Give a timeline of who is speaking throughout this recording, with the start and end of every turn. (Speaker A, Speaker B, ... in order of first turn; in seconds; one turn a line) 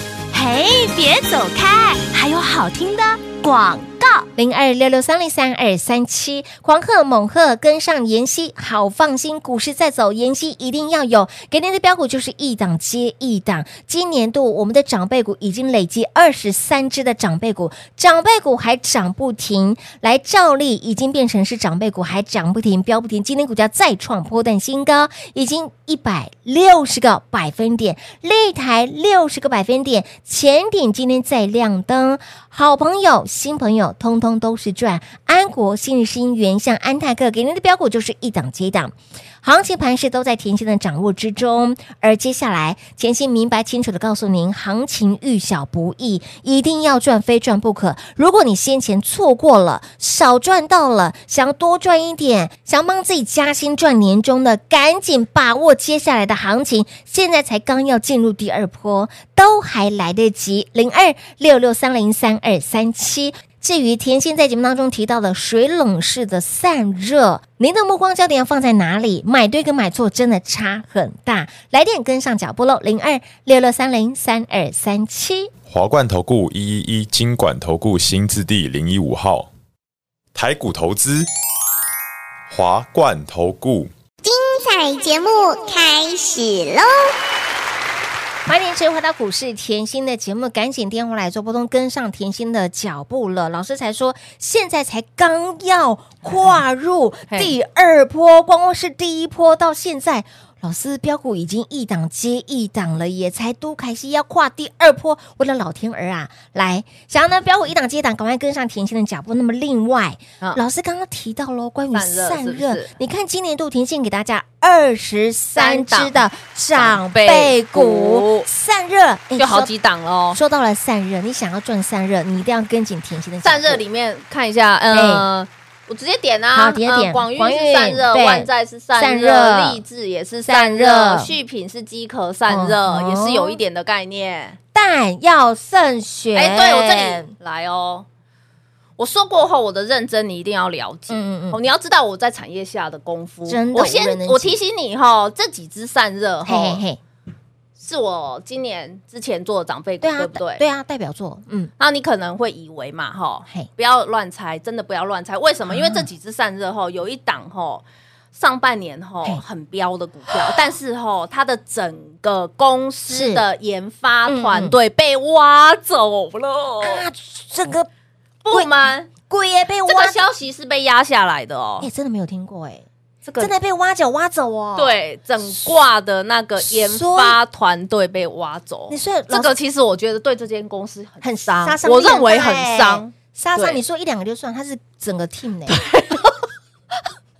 Speaker A: 0.3-4.2
Speaker B: 4.3-75.5
Speaker C: 75.7-79.5
Speaker C: 80.3-81.3
Speaker C: 82.5-83.9
Speaker D: 84.2-87.1
Speaker B: 88.5-119.7
Speaker E: 97.3-97.5
Speaker E: 111.9-112.9
Speaker E: 115.5-116.2
Speaker E: 116.7-118.5
Speaker E: 119.4-120.4
Speaker B: 120.3-123.8
Speaker E: 123.4-134.6
Speaker B: 124.9-125.2
Speaker B: 126.5-129.8
Speaker B: 130.4-131.3
Speaker B: 132.5-133.6
Speaker B: 134.7-137.3
Speaker E: 136.3-138.0
Speaker E: 139.0-146.8
Speaker B: 141.1-141.6
Speaker B: 143.5-144.6
Speaker B: 146.4-147.0
Speaker E: 147.8-150.6
Speaker B: 150.0-151.7
Speaker E: 151.8-167.1
Speaker B: 155.7-156.1
Speaker B: 160.3-160.6
Speaker B: 163.1-163.4
Speaker B: 164.3-164.8
Speaker B: 166.8-167.9
Speaker E: 168.4-169.1
Speaker B: 168.5-170.2
Speaker E: 169.9-171.9
Speaker B: 171.8-172.8
Speaker E: 173.2-173.5
Speaker B: 173.4-175.7
Speaker E: 174.8-183.8
Speaker B: 176.6-177.4
Speaker B: 178.9-179.5
Speaker B: 181.2-185.8
Speaker E: 185.7-186.2